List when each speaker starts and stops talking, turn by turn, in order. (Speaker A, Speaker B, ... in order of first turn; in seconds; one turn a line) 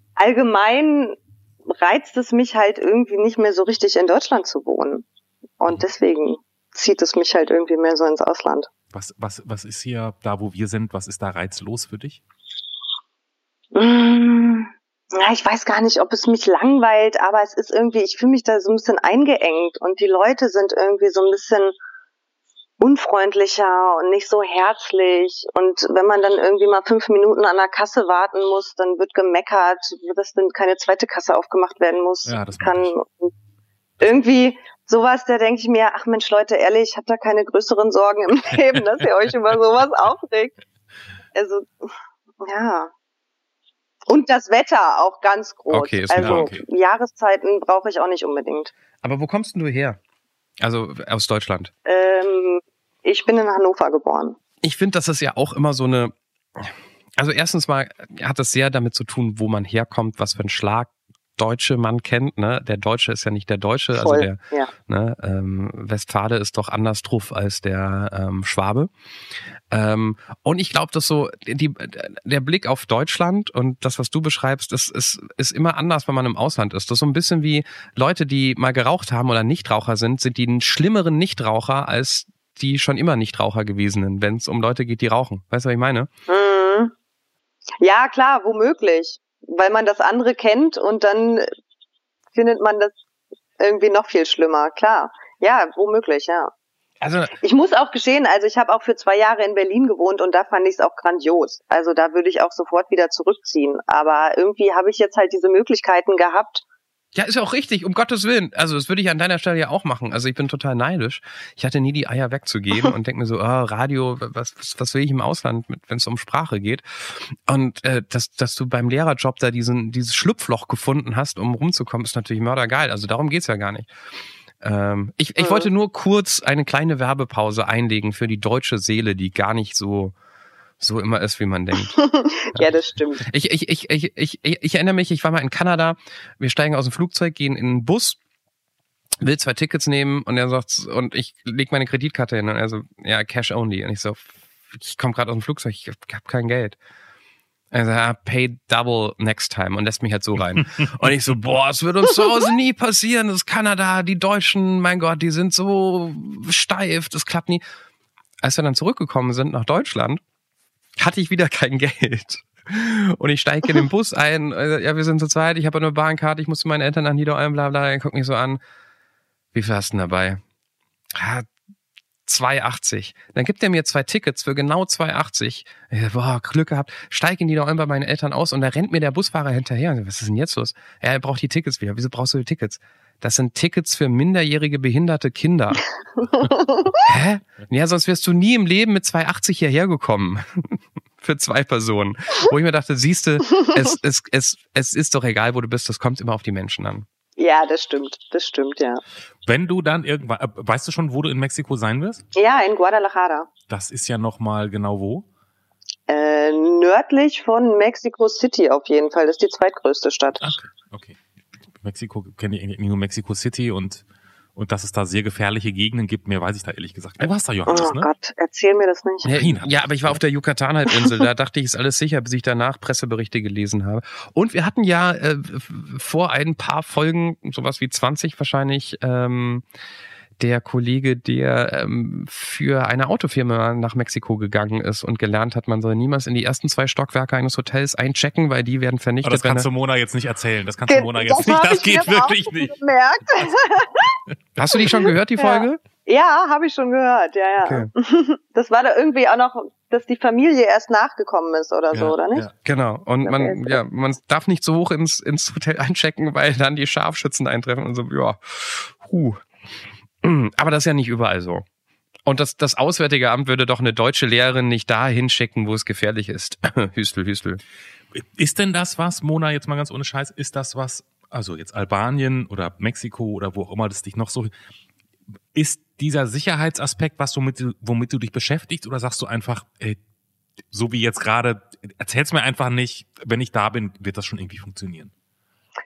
Speaker A: 0.2-5.0
Speaker A: 5.6-8.7
Speaker B: 8.9-12.2
Speaker A: 13.7-21.7
Speaker A: 22.8-33.3
Speaker B: 32.2-32.9
Speaker A: 34.0-40.5
Speaker A: 41.3-42.9
Speaker A: 44.1-48.7
Speaker C: 45.7-46.5
Speaker B: 46.2-46.6
Speaker C: 49.0-50.0
Speaker C: 50.6-51.7
Speaker A: 51.8-54.4
Speaker C: 54.6-68.9
Speaker A: 63.9-64.7
Speaker C: 69.7-86.1
Speaker A: 86.3-86.9
Speaker A: 87.8-91.5
Speaker A: 92.3-92.9
Speaker A: 93.6-96.5
Speaker C: 97.0-97.3
Speaker A: 97.4-106.6
Speaker C: 107.1-123.9
Speaker C: 124.6-130.1
Speaker A: 125.4-125.7
Speaker C: 130.8-132.0
Speaker A: 131.9-133.2
Speaker C: 133.2-138.2
Speaker C: 139.2-146.8
Speaker C: 147.7-157.6
Speaker C: 158.4-160.2
Speaker C: 161.0-168.6
Speaker C: 169.5-170.4
Speaker C: 171.1-171.5
Speaker C: 172.3-185.8
Speaker B: 186.2-186.5
Speaker A: 186.5-187.0
Speaker C: 187.0-197.1
Speaker A: 197.4-199.0
Speaker B: 199.4-202.2
Speaker A: 202.3-203.5
Speaker B: 203.7-205.2
Speaker A: 206.1-210.4
Speaker B: 210.4-211.2
Speaker B: 211.7-214.0
Speaker B: 214.6-218.1
Speaker A: 217.7-219.4
Speaker C: 219.2-229.6
Speaker B: 219.3-220.2
Speaker C: 230.4-239.7
Speaker B: 239.2-242.7
Speaker A: 240.9-244.2
Speaker C: 244.6-245.8
Speaker A: 244.8-252.4
Speaker C: 247.6-247.9
Speaker B: 251.9-252.5
Speaker C: 252.6-259.4
Speaker A: 253.2-253.8
Speaker C: 260.2-261.6
Speaker C: 262.2-267.6
Speaker B: 268.1-274.5
Speaker B: 275.5-280.0
Speaker B: 280.7-285.1